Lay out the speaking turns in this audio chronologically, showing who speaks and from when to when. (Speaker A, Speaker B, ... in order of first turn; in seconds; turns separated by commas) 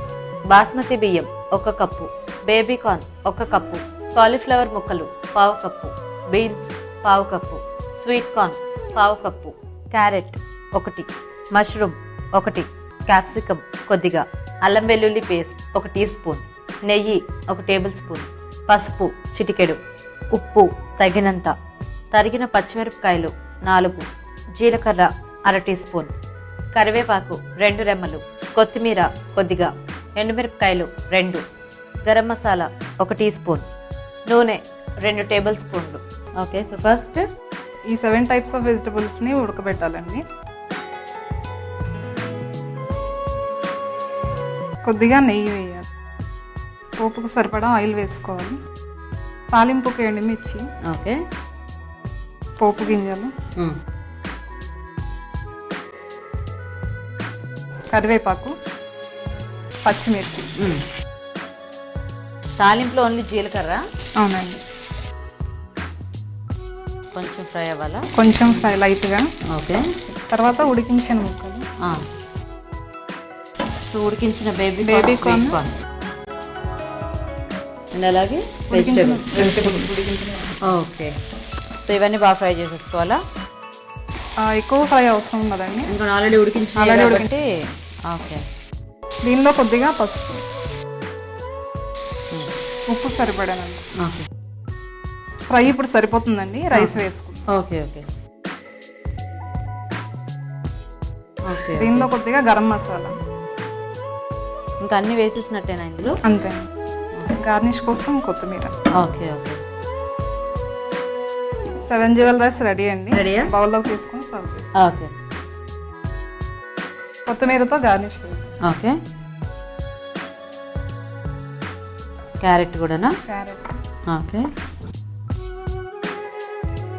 Speaker A: 0.5-19.8, Speaker A: 20.3-21.5, Speaker A: 22.1-24.1, Speaker A: 24.6-26.1, Speaker A: 26.7-31.4, Speaker A: 32.0-33.7, Speaker A: 34.3-37.2, Speaker B: 37.9-40.2, Speaker B: 44.9-45.9, Speaker B: 47.0-48.6, Speaker B: 49.5-50.7, Speaker A: 50.9-51.2, Speaker B: 52.6-53.3, Speaker B: 57.9-58.5, Speaker B: 59.9-60.5, Speaker A: 62.6-63.8, Speaker B: 64.2-64.6, Speaker A: 67.1-68.7, Speaker B: 68.2-69.3, Speaker A: 69.5-69.8, Speaker B: 70.3-71.6, Speaker A: 73.9-75.7, Speaker B: 74.8-75.6, Speaker A: 77.9-79.8, Speaker B: 78.7-80.5, Speaker A: 80.6-81.1, Speaker A: 81.8-83.2, Speaker B: 84.4-85.9, Speaker A: 85.9-87.5, Speaker B: 86.8-87.3, Speaker A: 88.1-88.4, Speaker B: 89.3-90.4, Speaker B: 92.9-93.8, Speaker A: 94.0-94.2, Speaker B: 95.5-97.4, Speaker A: 97.5-98.0, Speaker A: 101.5-102.1, Speaker B: 101.8-103.1, Speaker A: 104.8-106.2, Speaker B: 106.2-106.7, Speaker B: 107.4-108.8, Speaker A: 109.0-109.6, Speaker B: 111.9-114.7, Speaker A: 113.1-113.5, Speaker A: 114.8-115.1, Speaker B: 117.3-118.5, Speaker A: 118.7-119.0, Speaker A: 122.4-123.2, Speaker B: 123.3-123.8, Speaker A: 124.1-124.5